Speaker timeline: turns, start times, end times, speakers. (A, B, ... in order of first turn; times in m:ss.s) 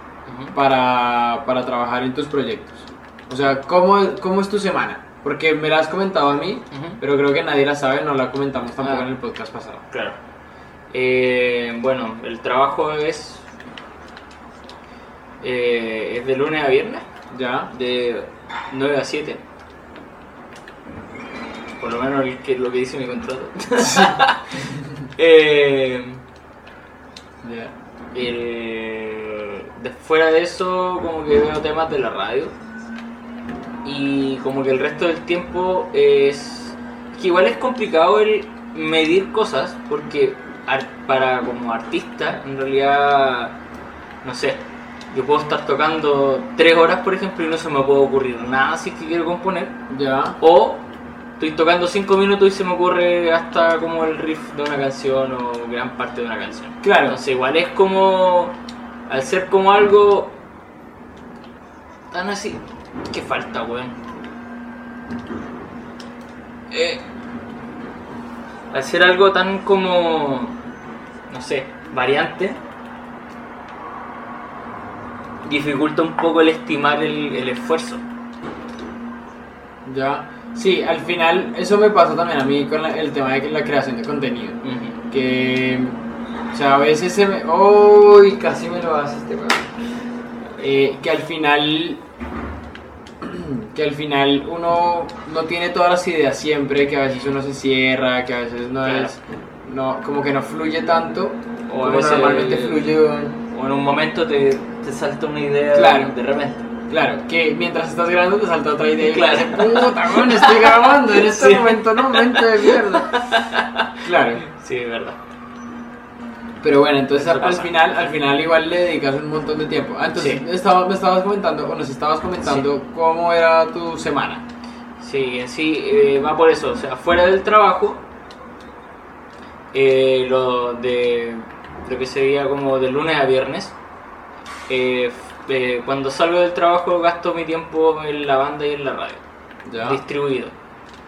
0:00.3-0:00.6 A
0:00.5-0:09.9 B
0:06.7-0:07.0 A
0:08.8-0:09.1 A
0:09.9-0:10.2 A
0:10.9-0:13.5 A
0:15.4-0:17.1 A
0:17.3-0:17.7 B
0:17.7-0:19.4 A
0:21.8-0:26.2 A
0:23.8-0:25.0 B
0:27.4-0:27.7 B
0:28.1-0:32.6 A
0:33.8-0:43.6 A
0:44.2-0:49.8 A
0:49.9-0:50.4 B
0:50.4-0:50.9 A
0:51.4-0:58.6 A
0:56.8-0:57.2 B
0:59.1-1:00.4 A
1:02.1-1:04.0 A
1:06.7-1:07.1 A
1:08.7-1:10.6 A
1:11.3-1:12.6 A
1:15.4-1:18.0 A
1:19.8-1:26.0 B
1:24.6-1:25.0 A
1:26.5-1:29.7 B
1:30.6-1:32.0 B
1:33.2-1:43.4 B
1:37.1-1:37.4 A
1:38.8-1:39.2 A
1:41.7-1:42.9 A
1:43.5-1:46.7 A
1:45.7-1:46.1 B
1:46.9-1:53.3 B
1:49.0-1:55.2 A
1:54.0-1:54.4 B
1:56.6-2:04.4 B
1:57.1-1:58.1 A
2:00.2-2:00.4 A
2:05.0-2:08.1 A
2:09.7-2:13.8 A
2:14.7-2:19.2 A
2:19.6-2:20.0 B
2:19.8-2:20.6 A